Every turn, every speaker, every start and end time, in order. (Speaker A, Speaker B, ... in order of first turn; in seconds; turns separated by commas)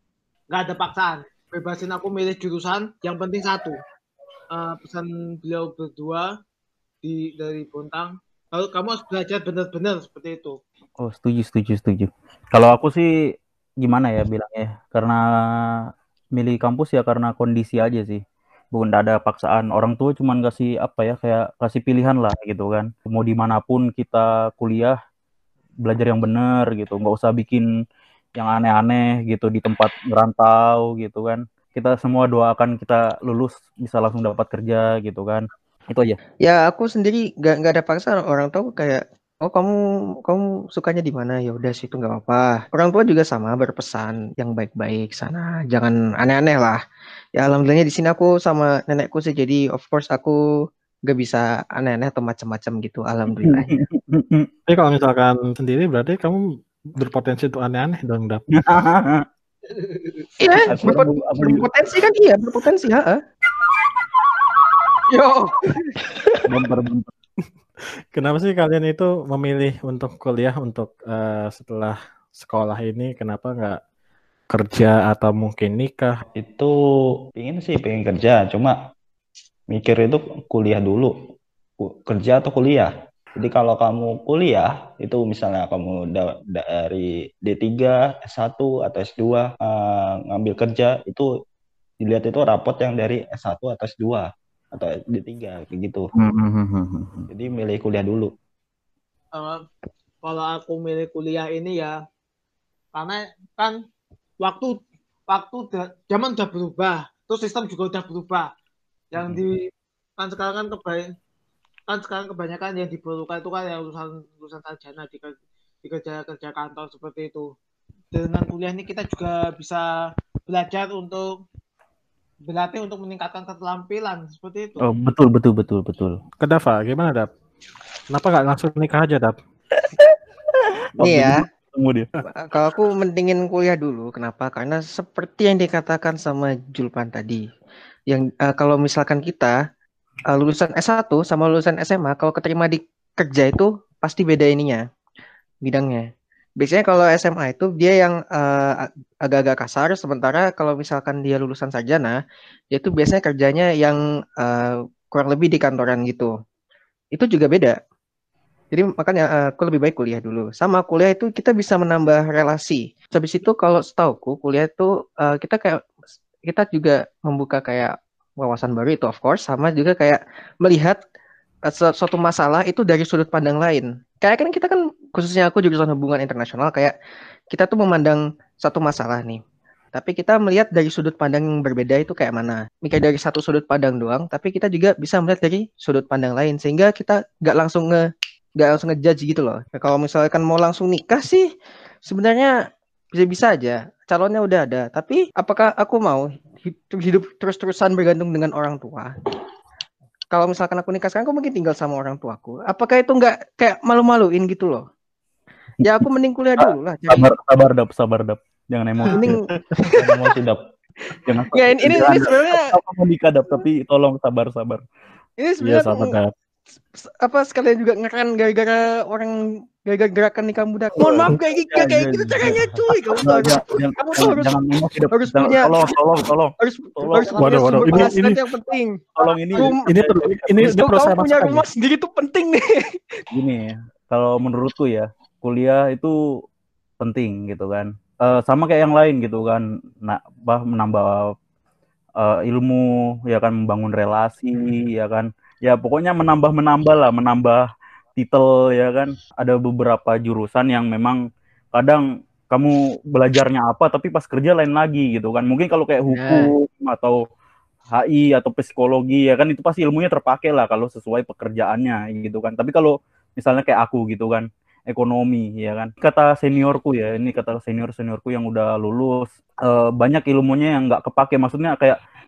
Speaker A: 0.5-3.8, Speaker A: 4.5-6.3, Speaker A: 7.0-10.6, Speaker B: 11.0-13.1, Speaker B: 13.8-15.8, Speaker B: 16.3-18.2, Speaker B: 18.7-24.9, Speaker B: 25.8-27.6, Speaker B: 28.4-36.2, Speaker C: 36.4-46.8, Speaker C: 47.4-50.4, Speaker C: 51.1-53.8, Speaker B: 53.4-54.5, Speaker D: 54.7-56.4, Speaker D: 57.0-58.4, Speaker B: 58.5-59.2, Speaker C: 60.4-63.2, Speaker B: 60.6-61.7, Speaker C: 65.1-66.2, Speaker B: 66.5-67.1, Speaker D: 68.1-73.8, Speaker D: 74.5-76.2, Speaker E: 76.3-76.7, Speaker E: 77.3-78.8, Speaker E: 79.7-81.1, Speaker E: 81.8-91.3, Speaker E: 92.0-96.1, Speaker B: 96.1-97.3, Speaker E: 97.3-98.3, Speaker A: 99.3-99.6, Speaker A: 100.2-102.0, Speaker A: 102.9-103.8, Speaker A: 104.4-108.5, Speaker A: 109.1-111.1, Speaker A: 111.9-117.5, Speaker A: 118.1-119.8, Speaker A: 120.5-121.3, Speaker A: 122.5-124.8, Speaker B: 124.8-126.2, Speaker D: 126.4-127.3, Speaker D: 128.1-129.4, Speaker B: 131.0-132.1, Speaker C: 131.0-131.4, Speaker C: 132.3-137.4, Speaker C: 138.1-139.6, Speaker C: 140.3-144.8, Speaker C: 145.6-146.1, Speaker C: 146.6-152.2, Speaker C: 152.7-156.3, Speaker C: 157.1-157.8, Speaker C: 158.7-165.8, Speaker C: 166.5-171.0, Speaker C: 171.7-176.9, Speaker C: 177.5-179.4, Speaker C: 179.9-188.0, Speaker C: 188.6-191.5, Speaker C: 192.1-192.5, Speaker C: 193.1-199.3, Speaker C: 200.3-204.8, Speaker C: 205.8-207.3, Speaker B: 206.6-209.5, Speaker C: 209.0-210.0, Speaker E: 209.9-210.6, Speaker C: 211.1-212.7, Speaker B: 211.2-214.8, Speaker C: 215.4-216.2, Speaker D: 215.6-216.3, Speaker C: 216.9-224.6, Speaker B: 220.9-227.4, Speaker C: 225.1-226.0, Speaker C: 226.6-229.0, Speaker A: 227.2-227.7, Speaker D: 227.4-228.5, Speaker B: 229.2-230.7, Speaker C: 229.6-233.2, Speaker D: 229.8-231.6, Speaker B: 233.3-236.1, Speaker B: 237.0-241.3, Speaker B: 242.2-251.2, Speaker B: 251.7-257.2, Speaker C: 256.1-256.5, Speaker B: 257.9-272.0